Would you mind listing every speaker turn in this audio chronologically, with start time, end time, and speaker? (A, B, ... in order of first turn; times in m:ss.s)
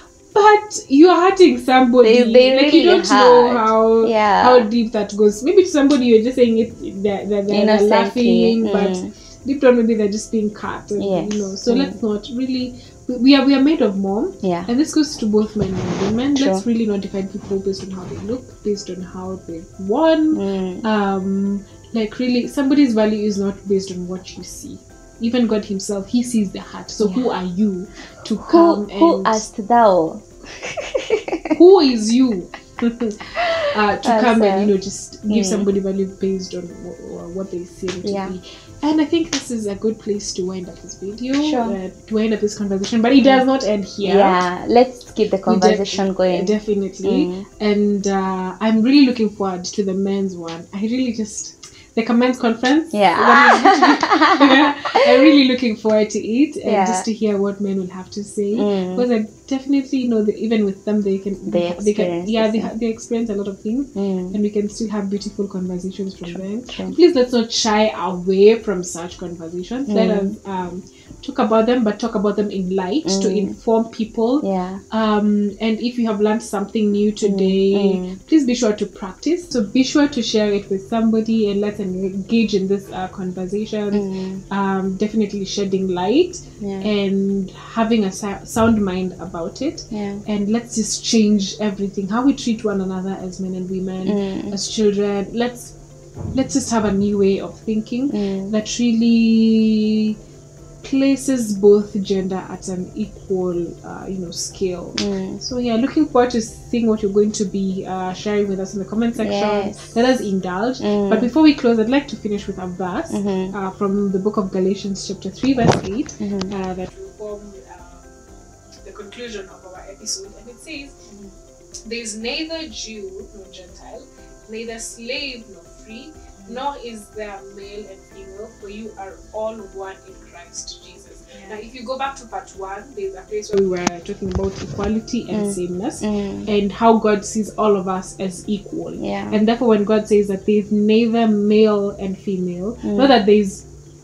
0:00.3-0:29.4 A
0:02.0-0:04.7 B
0:07.5-0:09.1 B
0:11.0-0:12.0 B
0:14.4-0:14.7 B
0:16.4-0:16.6 B
0:20.3-0:20.9 B
0:27.0-0:27.3 B
0:28.5-0:31.6 B
0:31.5-0:44.4 A
0:33.4-0:34.7 B
0:35.3-0:35.7 B
0:38.0-0:38.4 B
0:41.4-0:41.8 B
0:44.0-0:47.5 B
0:45.5-1:35.8 A
0:52.9-0:55.1 B
0:56.6-0:57.1 B
0:58.6-0:59.1 B
1:01.5-1:02.7 B
1:04.0-1:04.4 B
1:06.2-1:07.0 B
1:09.9-1:10.4 B
1:13.0-1:13.6 B
1:14.4-1:14.8 B
1:17.2-1:18.2 B
1:23.9-1:24.4 B
1:26.6-1:26.9 B
1:29.9-1:30.2 B
1:34.0-1:34.6 B
1:36.3-1:40.2 A
1:38.1-1:38.5 B
1:40.8-1:58.2 A
1:45.0-1:45.4 B
1:49.2-1:50.2 B
1:50.8-1:51.3 B
1:53.1-1:53.6 B
1:56.2-1:56.5 B
1:58.8-2:01.1 A
2:01.9-2:23.7 A
2:15.3-2:16.5 B
2:19.0-2:19.4 B
2:22.8-2:23.1 B